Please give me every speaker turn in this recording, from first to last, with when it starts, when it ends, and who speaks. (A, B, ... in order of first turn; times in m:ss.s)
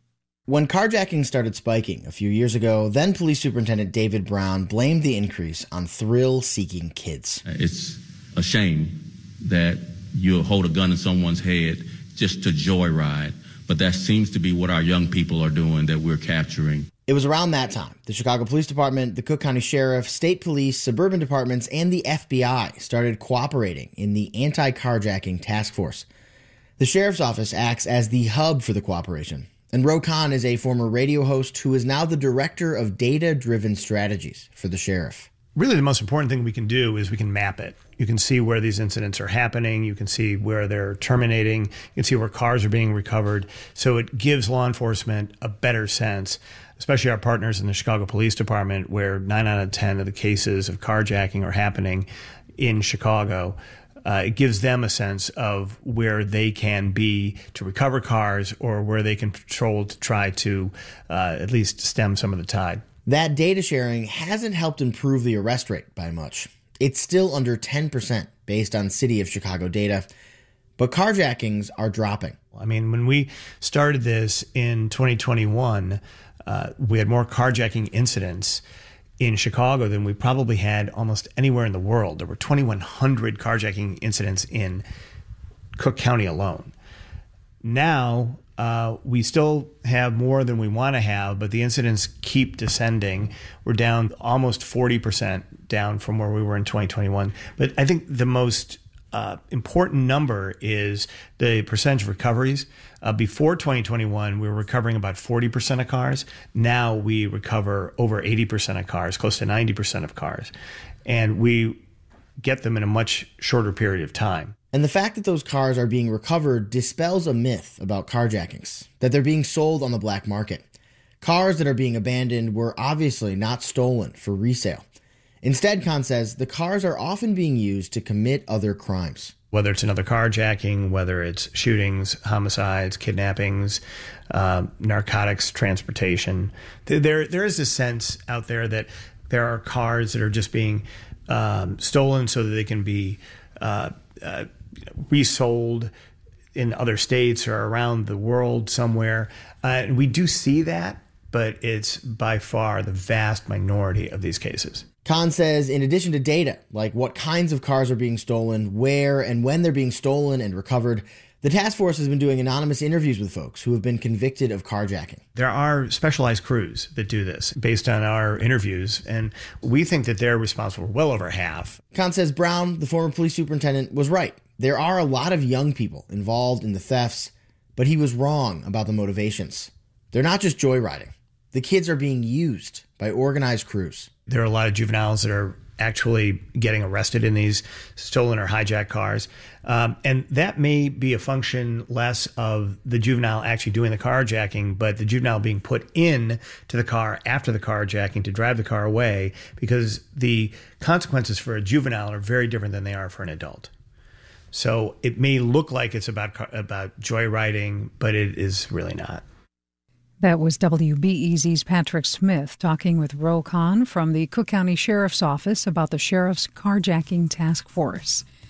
0:00.5-0:07.4 A
0:07.4-0:16.9 B
0:17.1-0:26.0 A
0:26.8-0:35.3 A
0:35.6-1:02.8 C
1:03.0-1:10.1 A
1:10.8-1:12.4 A
1:12.5-1:18.6 C
1:19.2-1:24.8 C
1:25.8-1:26.7 C
1:27.6-1:50.5 C
1:51.0-1:51.8 C
1:52.4-1:54.5 C
1:54.7-2:00.6 A
2:01.2-2:04.8 A
2:05.4-2:09.3 A
2:09.5-2:25.9 C
2:26.5-2:34.8 C
2:35.0-2:45.2 A
2:45.4-2:51.8 C
2:51.9-3:04.1 A
3:04.3-3:23.7 C
3:24.5-3:29.2 C
3:30.2-3:38.2 D